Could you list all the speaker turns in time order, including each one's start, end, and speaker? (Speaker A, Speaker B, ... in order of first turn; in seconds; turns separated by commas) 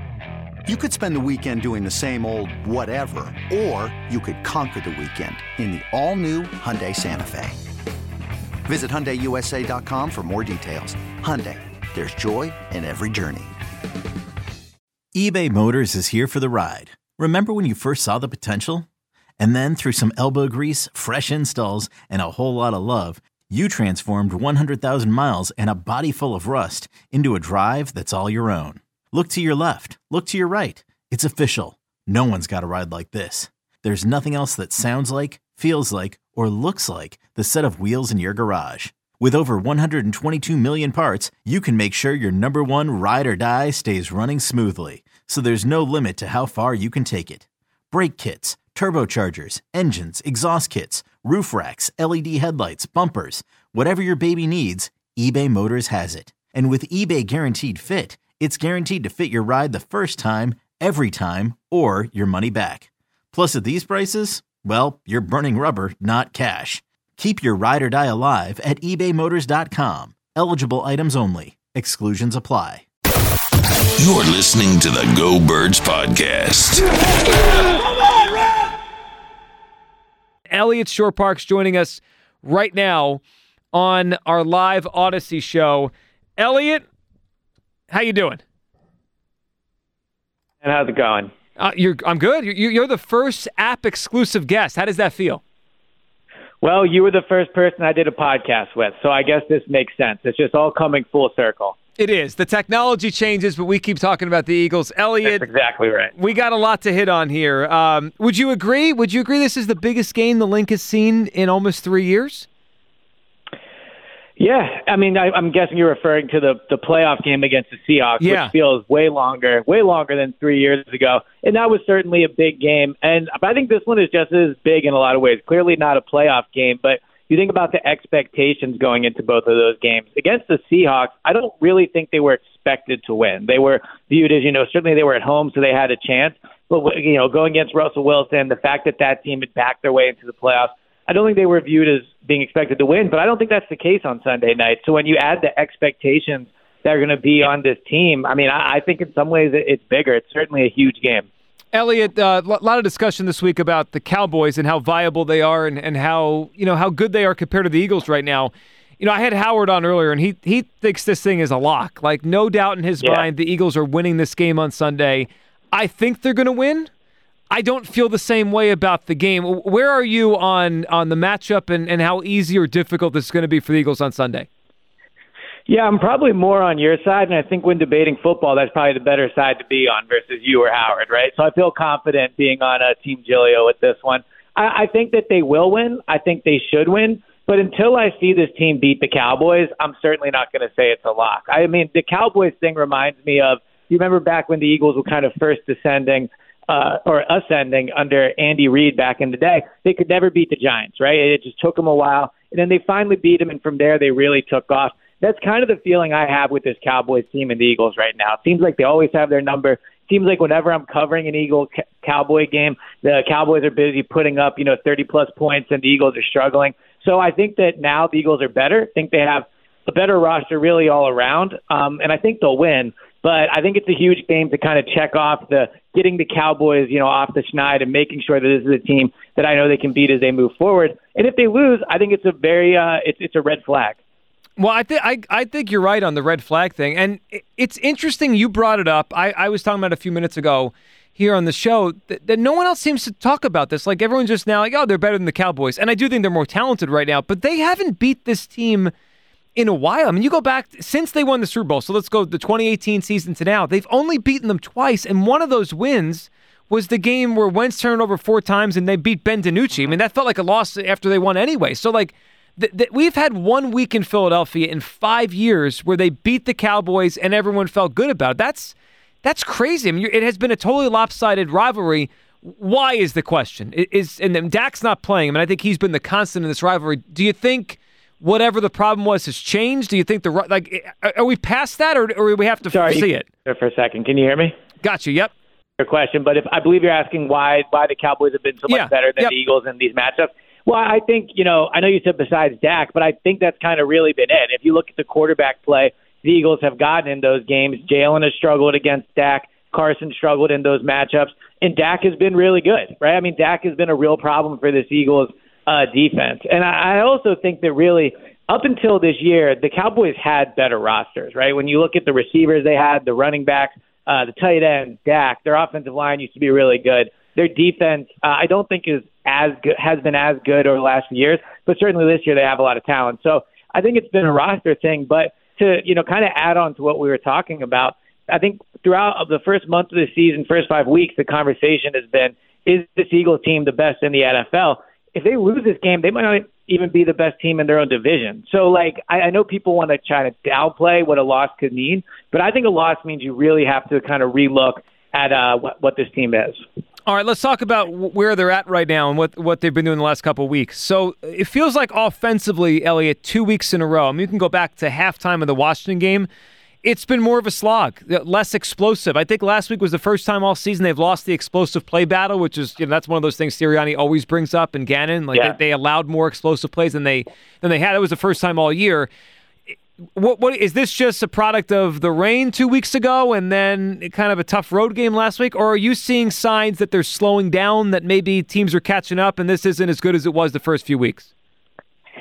Speaker A: 0.7-7.6, Speaker A: 8.7-13.5, Speaker B: 15.1-18.9, Speaker B: 19.4-72.8, Speaker C: 74.0-76.9, Speaker D: 80.5-83.2, Speaker D: 83.7-86.8, Speaker D: 87.9-88.4, Speaker E: 90.6-91.3, Speaker D: 91.6-95.4, Speaker E: 96.6-101.8, Speaker D: 102.0-105.5, Speaker E: 105.2-106.1, Speaker D: 106.2-112.5, Speaker E: 114.4-151.3, Speaker D: 118.2-118.5, Speaker D: 151.7-166.9, Speaker D: 167.5-174.5, Speaker E: 175.7-234.0, Speaker D: 234.6-248.9, Speaker D: 249.6-283.3, Speaker E: 282.7-284.6, Speaker D: 284.8-285.3, Speaker E: 285.8-346.6, Speaker D: 288.7-289.3, Speaker D: 347.1-356.3, Speaker D: 356.8-369.1, Speaker D: 370.2-381.3